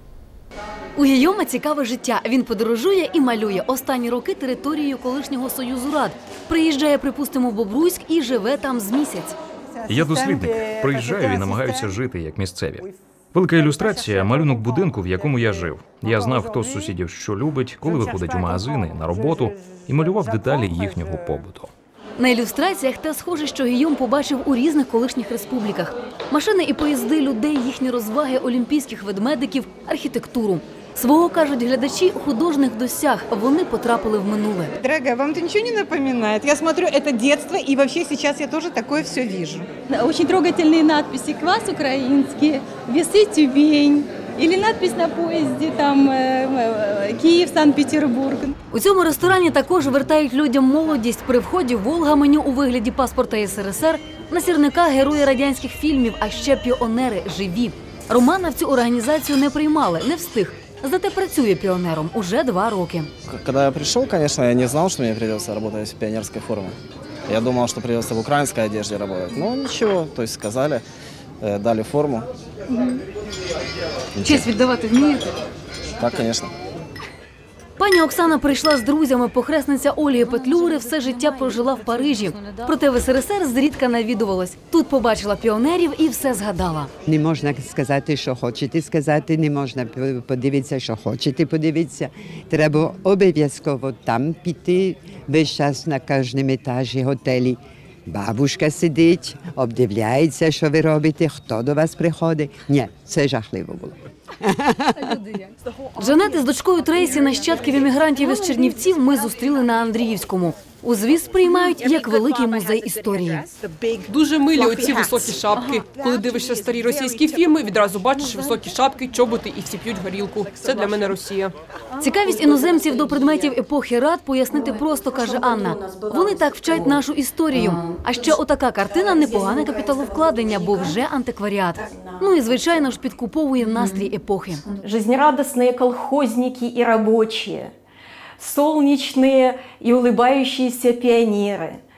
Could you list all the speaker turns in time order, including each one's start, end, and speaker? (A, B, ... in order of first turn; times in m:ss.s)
0:01.0-0:09.3 A
0:09.9-0:21.7 B
0:22.2-0:34.7 A
0:34.8-0:39.7 C
0:39.9-0:48.5 D
0:48.7-1:03.1 A
1:03.3-1:06.7 E
1:07.3-1:10.8 E
1:11.4-1:12.3 E
1:14.2-1:14.6 E
1:16.0-1:16.5 E
1:17.8-1:26.9 A
1:27.0-1:45.1 F
1:46.0-1:53.5 A
1:54.0-2:01.5 G
2:02.0-2:14.6 A
2:05.2-2:06.8 H
2:08.9-2:11.0 H
2:11.9-2:12.2 H
2:14.8-2:17.7 H
2:18.4-2:21.8 H